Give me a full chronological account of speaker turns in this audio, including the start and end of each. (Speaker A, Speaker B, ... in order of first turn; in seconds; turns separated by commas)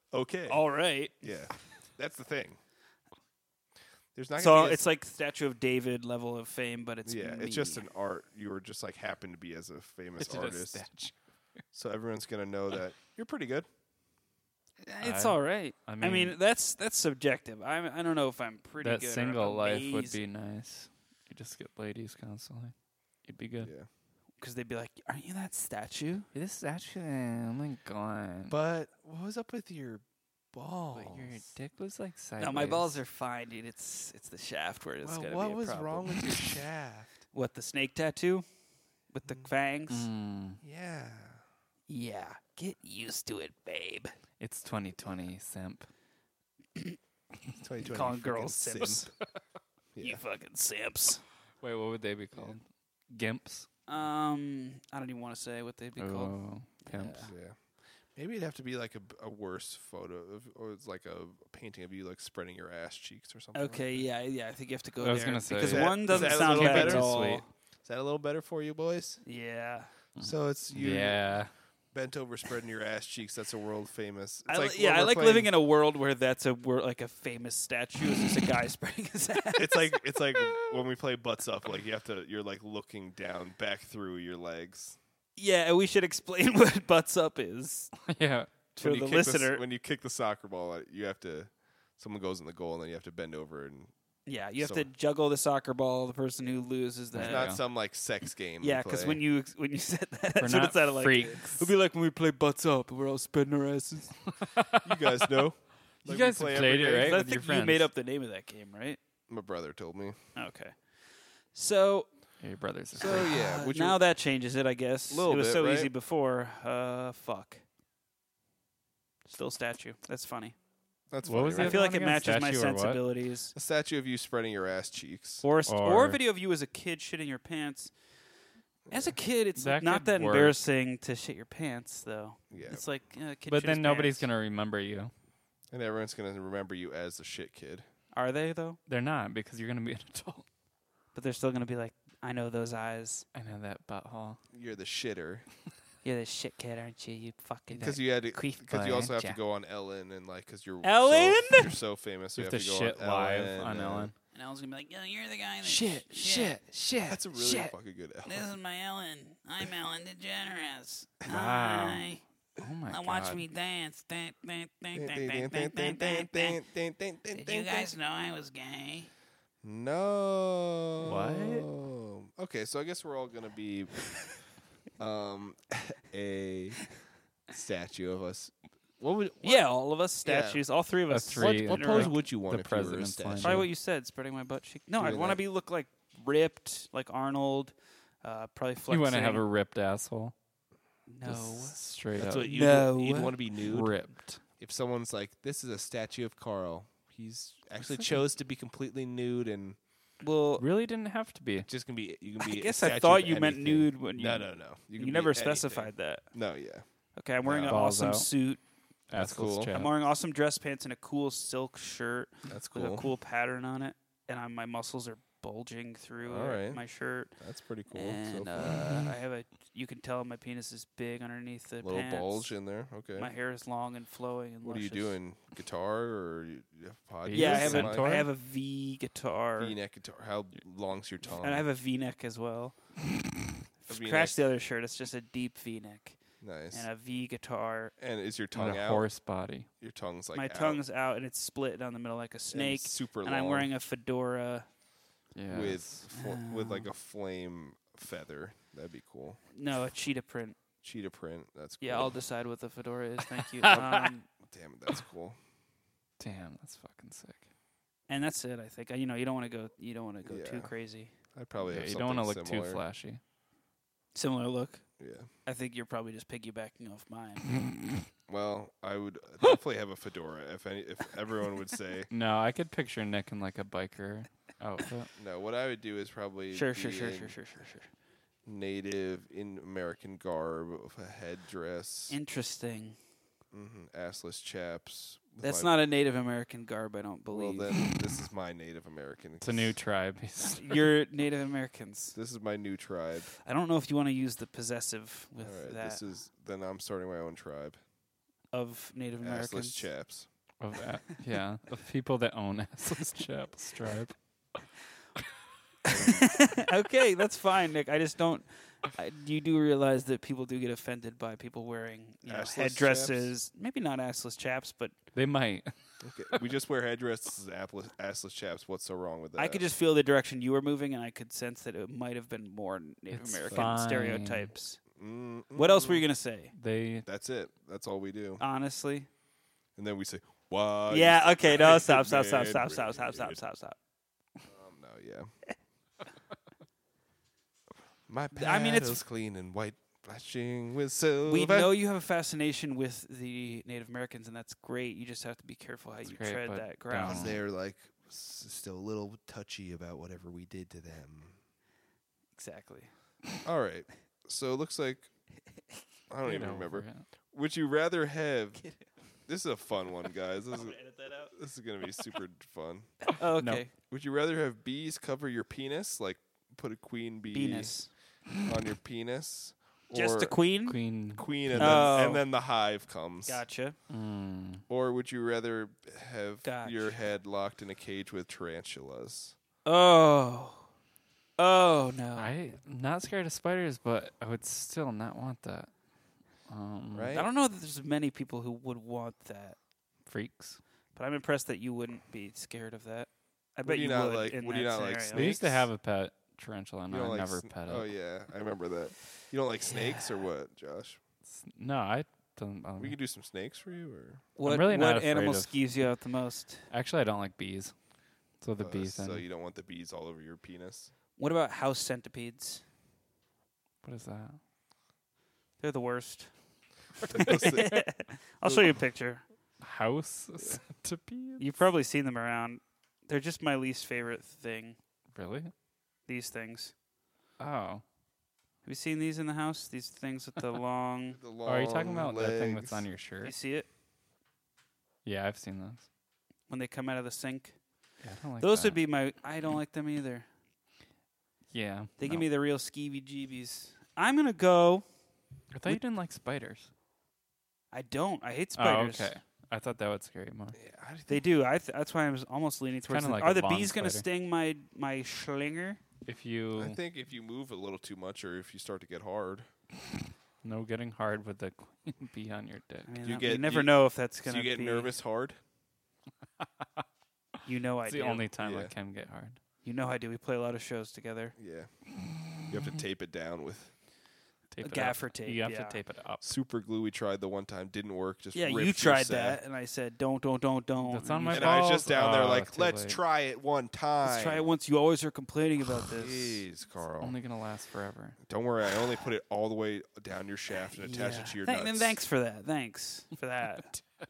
Speaker A: 0.1-0.6, Speaker B: 0.5-1.1, Speaker A: 1.2-2.6, Speaker A: 4.2-4.8, Speaker B: 4.4-7.8, Speaker A: 7.0-10.9, Speaker C: 10.2-11.1, Speaker A: 11.7-13.7, Speaker B: 14.8-20.2, Speaker C: 15.0-16.4, Speaker C: 18.8-22.7, Speaker C: 23.3-23.7, Speaker A: 23.6-23.9, Speaker B: 24.4-26.3, Speaker C: 26.3-28.6, Speaker A: 28.5-31.4, Speaker C: 30.9-33.0, Speaker B: 32.4-36.4, Speaker A: 35.0-37.1, Speaker B: 37.3-38.5, Speaker B: 39.1-40.1, Speaker C: 39.9-40.6, Speaker A: 40.6-41.4, Speaker B: 41.9-44.1, Speaker C: 44.4-45.9, Speaker A: 47.6-49.1, Speaker B: 47.9-49.1, Speaker A: 50.0-50.2, Speaker B: 50.0-51.2, Speaker C: 51.6-53.7, Speaker B: 53.9-57.3, Speaker C: 56.0-57.2, Speaker A: 57.1-57.6, Speaker A: 58.1-64.1, Speaker B: 63.5-67.5, Speaker C: 65.0-67.5, Speaker A: 65.6-67.2, Speaker A: 67.8-69.2, Speaker B: 69.2-69.9, Speaker C: 70.2-71.5, Speaker A: 70.2-75.5, Speaker B: 74.5-80.0, Speaker A: 79.6-85.0, Speaker B: 85.4-87.9, Speaker C: 88.1-88.6, Speaker B: 88.8-89.6, Speaker A: 88.8-93.9, Speaker B: 94.3-97.5, Speaker A: 94.6-94.9, Speaker C: 97.1-97.6, Speaker A: 97.2-99.2, Speaker B: 98.6-104.2, Speaker C: 100.4-101.7, Speaker C: 104.4-104.8, Speaker A: 104.8-107.2, Speaker C: 106.0-107.9, Speaker B: 107.0-109.0, Speaker A: 109.3-110.2, Speaker B: 110.3-112.1, Speaker C: 112.4-113.4, Speaker A: 113.0-114.0, Speaker B: 113.0-117.6, Speaker A: 115.1-115.9, Speaker B: 119.3-120.6, Speaker A: 121.1-121.8, Speaker C: 121.2-123.0, Speaker B: 121.6-123.5, Speaker A: 123.5-125.5, Speaker B: 125.4-127.9, Speaker C: 125.7-126.2, Speaker A: 128.9-129.2, Speaker B: 128.9-134.3, Speaker C: 129.6-130.6, Speaker A: 132.5-132.8, Speaker C: 133.5-135.1, Speaker A: 135.7-137.9, Speaker B: 138.1-138.8, Speaker C: 138.9-140.4, Speaker B: 141.2-143.3, Speaker C: 143.3-144.4, Speaker A: 144.5-145.5, Speaker B: 146.0-148.6, Speaker A: 147.7-154.1, Speaker C: 148.7-149.3, Speaker B: 150.8-151.7, Speaker C: 152.4-154.1, Speaker B: 154.3-156.6, Speaker C: 155.7-157.2, Speaker A: 157.1-158.5, Speaker B: 158.2-162.2, Speaker C: 161.3-162.1, Speaker C: 162.6-163.4, Speaker B: 162.9-166.6, Speaker A: 164.9-167.9, Speaker B: 167.3-169.1, Speaker A: 169.6-174.2, Speaker C: 171.0-171.7, Speaker A: 175.0-176.9, Speaker A: 177.5-179.7, Speaker B: 179.4-182.1, Speaker A: 180.2-180.6, Speaker C: 181.1-183.7, Speaker A: 181.4-183.7, Speaker B: 183.4-189.4, Speaker A: 185.0-185.4, Speaker C: 188.9-190.3, Speaker B: 191.1-191.8, Speaker C: 191.2-192.5, Speaker A: 192.2-194.0, Speaker B: 192.4-193.4, Speaker C: 193.6-194.4, Speaker A: 194.6-199.8, Speaker B: 200.2-200.7, Speaker C: 200.6-201.7, Speaker A: 201.7-206.8, Speaker B: 202.4-206.3, Speaker B: 207.2-208.6, Speaker A: 207.4-207.8, Speaker C: 207.7-208.3, Speaker C: 209.1-209.9, Speaker A: 209.1-209.7, Speaker B: 209.7-217.3, Speaker A: 212.5-213.1, Speaker A: 216.2-218.8, Speaker B: 217.9-222.6, Speaker A: 221.8-223.3, Speaker B: 223.2-225.2, Speaker A: 224.6-228.1, Speaker C: 227.3-228.3, Speaker B: 227.3-229.8, Speaker A: 229.6-231.7, Speaker B: 231.4-232.8, Speaker B: 233.8-237.9, Speaker A: 233.9-234.4, Speaker A: 236.4-236.9, Speaker A: 238.0-239.3, Speaker C: 238.5-239.7, Speaker A: 239.8-240.8, Speaker B: 240.3-244.7, Speaker A: 242.5-243.7, Speaker C: 245.3-245.9, Speaker A: 245.5-249.4, Speaker B: 246.1-246.9, Speaker B: 249.5-250.6, Speaker A: 250.8-252.2, Speaker B: 251.8-254.3, Speaker A: 253.7-255.4, Speaker C: 256.2-257.5, Speaker B: 258.1-261.1, Speaker A: 260.2-260.7, Speaker A: 261.3-262.8, Speaker C: 261.6-263.2, Speaker B: 264.1-264.9, Speaker A: 265.0-265.3, Speaker B: 265.4-267.5, Speaker A: 268.3-272.1, Speaker C: 272.1-275.1, Speaker A: 275.2-277.4, Speaker B: 276.5-277.9, Speaker A: 278.5-282.2, Speaker B: 282.1-283.0, Speaker A: 283.5-285.7, Speaker B: 285.4-287.7, Speaker A: 287.3-289.8, Speaker C: 289.4-290.9, Speaker B: 290.6-292.2, Speaker A: 292.1-293.3, Speaker B: 293.4-296.0, Speaker A: 295.4-297.8, Speaker B: 298.5-299.9, Speaker A: 299.2-300.3, Speaker C: 300.6-304.2, Speaker A: 305.9-306.2, Speaker B: 306.0-314.9, Speaker A: 312.2-313.3, Speaker C: 315.1-315.7, Speaker A: 316.0-319.6, Speaker B: 319.4-324.8, Speaker C: 323.1-324.5, Speaker A: 323.5-323.8, Speaker A: 324.9-326.0, Speaker B: 325.6-326.5, Speaker C: 326.5-327.1, Speaker A: 327.1-328.4, Speaker B: 328.4-329.1, Speaker A: 329.8-333.4, Speaker B: 330.9-333.8, Speaker A: 334.5-335.3, Speaker A: 338.1-341.8, Speaker B: 338.3-339.0, Speaker B: 341.3-347.4, Speaker C: 346.1-347.4, Speaker A: 347.0-351.4, Speaker B: 352.4-352.9, Speaker A: 353.4-355.1, Speaker A: 356.1-358.6, Speaker C: 356.2-357.1, Speaker A: 359.3-363.1, Speaker B: 360.5-361.3, Speaker B: 363.1-363.7, Speaker A: 363.9-367.8, Speaker B: 367.3-367.9, Speaker A: 368.4-370.4, Speaker B: 369.9-370.8, Speaker C: 370.7-371.9, Speaker A: 371.1-373.4, Speaker B: 371.6-372.3, Speaker B: 373.3-373.8, Speaker C: 373.9-374.6, Speaker A: 374.7-379.4, Speaker B: 376.4-377.0, Speaker B: 379.6-380.7, Speaker B: 381.4-382.3, Speaker C: 382.2-385.7, Speaker C: 386.5-387.1, Speaker A: 386.9-387.3, Speaker B: 387.1-389.6, Speaker C: 390.1-390.6, Speaker B: 390.9-395.3, Speaker A: 393.6-395.7, Speaker C: 395.1-397.9, Speaker A: 396.9-401.0, Speaker B: 399.7-400.1, Speaker C: 401.3-403.0, Speaker A: 402.8-404.2, Speaker B: 404.4-406.7, Speaker C: 404.4-405.6, Speaker C: 406.7-407.7, Speaker C: 408.4-409.2, Speaker A: 408.6-410.9, Speaker B: 411.2-412.6, Speaker C: 413.8-414.4, Speaker B: 415.6-416.3, Speaker A: 417.0-418.8, Speaker B: 417.0-419.2, Speaker C: 419.6-421.4, Speaker B: 421.4-424.8, Speaker C: 425.1-425.5, Speaker B: 426.1-426.7, Speaker C: 427.4-427.8, Speaker B: 428.6-431.2, Speaker A: 431.2-432.8, Speaker C: 431.5-433.4, Speaker B: 433.2-433.7, Speaker C: 435.1-435.9, Speaker B: 436.5-437.6, Speaker C: 438.0-438.8, Speaker B: 438.4-440.3, Speaker C: 441.5-442.3, Speaker B: 442.0-444.9, Speaker C: 445.5-446.7, Speaker B: 447.7-449.1, Speaker C: 448.6-450.6, Speaker A: 450.6-451.2, Speaker B: 451.1-455.8, Speaker C: 452.9-454.1, Speaker C: 456.1-456.8, Speaker A: 456.6-459.5, Speaker C: 460.4-462.9, Speaker B: 462.9-464.9, Speaker A: 463.0-465.4, Speaker B: 467.4-468.3, Speaker C: 467.8-469.4, Speaker A: 468.4-468.7, Speaker B: 469.6-471.4, Speaker A: 471.4-471.7, Speaker A: 472.5-473.7, Speaker C: 474.5-476.3, Speaker B: 474.6-475.8, Speaker A: 476.2-479.4, Speaker B: 478.3-481.7, Speaker C: 480.8-483.0, Speaker A: 481.3-484.5, Speaker B: 484.0-486.4, Speaker A: 485.8-487.2, Speaker C: 487.0-488.2, Speaker A: 488.3-492.0, Speaker B: 490.8-493.8